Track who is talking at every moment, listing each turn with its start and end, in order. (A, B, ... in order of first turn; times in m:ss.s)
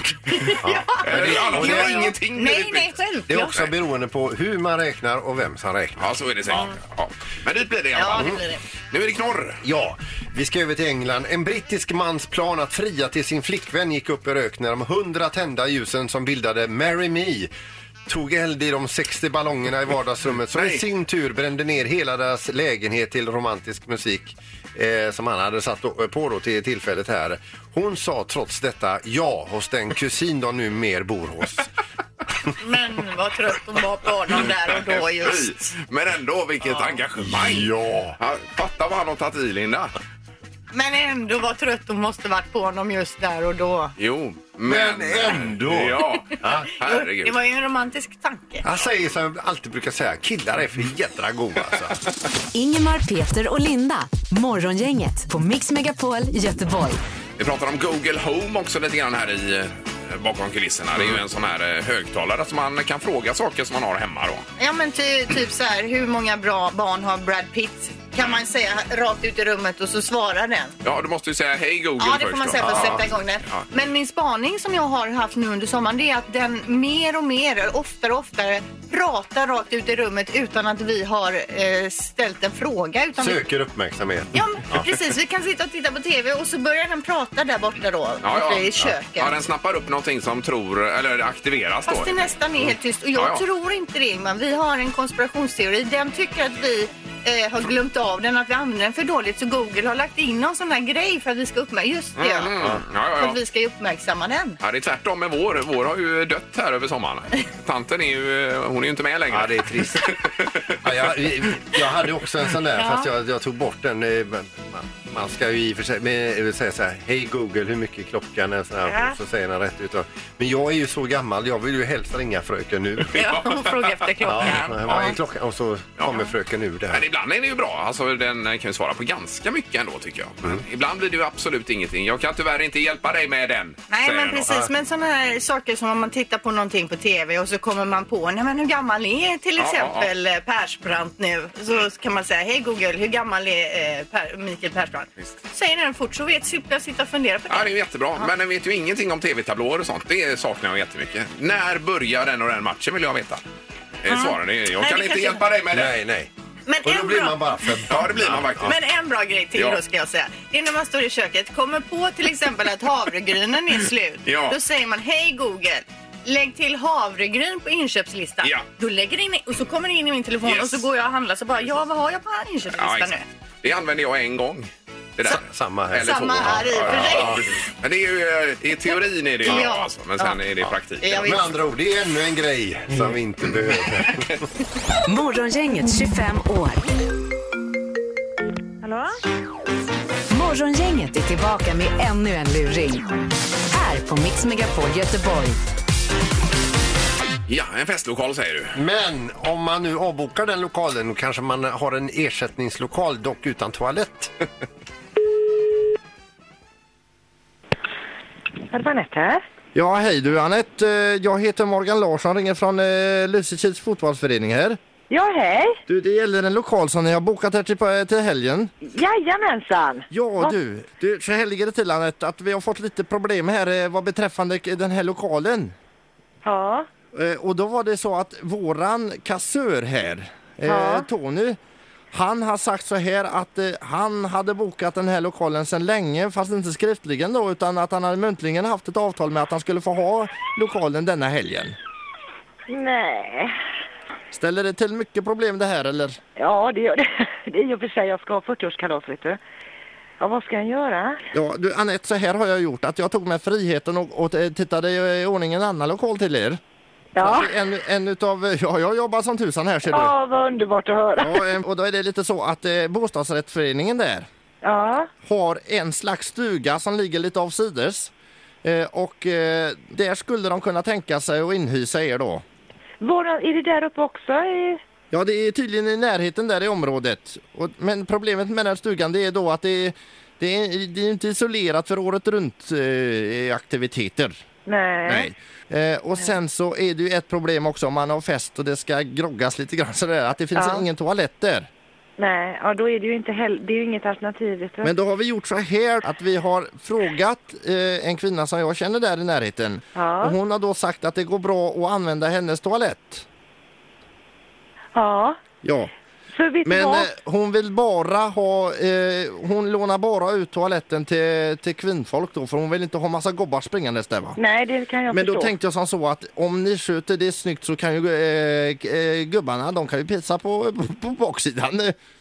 0:00.3-0:03.6 A
0:00.3-0:03.0 B
0:00.6-0:02.2 C
0:03.3-0:06.1 C
0:06.0-0:09.6 B
0:07.9-0:08.6 A
0:08.1-0:08.4 C
0:09.6-0:17.5 C
0:18.1-0:31.7 C
0:20.5-0:20.8 B
0:32.6-0:35.7 A
0:34.9-0:39.9 B
0:37.2-0:38.2 C
0:40.7-0:43.9 A
0:44.0-0:47.4 B
0:44.6-0:46.7 C
0:46.8-0:48.6 A
0:48.6-0:52.0 C
0:52.5-0:57.0 D
0:57.4-1:04.4 B
1:04.6-1:10.7 A
1:10.8-1:13.7 B
1:12.0-1:23.4 A
1:12.6-1:13.0 C
1:23.2-1:24.9 C
1:24.3-1:29.3 A
1:28.2-1:32.3 B
1:31.9-1:42.5 A
1:33.1-1:33.4 B
1:42.2-1:43.4 B
1:43.2-1:44.6 A
1:44.6-1:50.4 B
1:49.3-1:50.2 C
1:50.8-2:03.2 C
1:52.8-1:53.1 A
1:58.9-1:59.2 A
2:03.1-2:03.8 B
2:03.1-2:05.2 A
2:04.2-2:07.0 C
2:04.3-2:05.1 B
2:06.0-2:06.2 B
2:06.9-2:14.5 B
2:13.9-2:28.3 A
2:19.6-2:20.1 B
2:27.5-2:33.4 B
2:34.0-2:36.0 B
2:34.1-2:35.4 A
2:35.7-2:36.3 C
2:36.7-2:37.8 A
2:36.8-2:38.7 C
2:37.9-2:38.8 B
2:38.6-2:53.2 A
2:39.5-2:39.8 B
2:44.2-2:44.6 B
2:50.4-2:50.8 B
2:52.7-3:01.4 B
2:55.2-2:57.4 C
2:56.0-2:57.5 A
2:59.4-3:00.4 A
3:01.0-3:01.5 A
3:01.2-3:04.4 C
3:05.1-3:06.8 D
3:08.8-3:09.1 E
3:10.3-3:13.1 D
3:13.7-3:15.6 D
3:17.5-3:18.7 B
3:18.7-3:24.3 C
3:28.7-3:29.4 E
3:29.7-3:34.8 F
3:35.1-3:35.8 E
3:35.9-3:38.7 F
3:38.8-3:40.5 E
3:40.1-3:45.7 F
3:46.4-3:46.9 E
3:47.1-3:51.6 F
3:50.7-3:51.1 E
3:52.1-4:01.7 F
4:02.7-4:03.5 E
4:04.3-4:06.2 F
4:06.4-4:09.4 E
4:10.2-4:11.2 E
4:11.3-4:16.6 F
4:17.2-4:17.5 E
4:17.2-4:20.1 F
4:19.9-4:21.4 E
4:21.2-4:24.2 F
4:24.6-4:25.1 E
4:25.2-4:28.1 F
4:28.6-4:32.4 F
4:33.0-4:34.8 E
4:35.1-4:44.4 F
4:44.6-4:45.3 E
4:45.0-4:51.7 F
4:50.5-4:50.8 E
4:52.2-4:54.9 E
4:54.8-5:03.2 F
4:59.9-5:00.4 E
5:04.9-5:05.4 E
5:05.6-5:05.9 F
5:06.3-5:07.1 E
5:06.6-5:14.4 F
5:14.4-5:15.5 E
5:15.1-5:21.9 F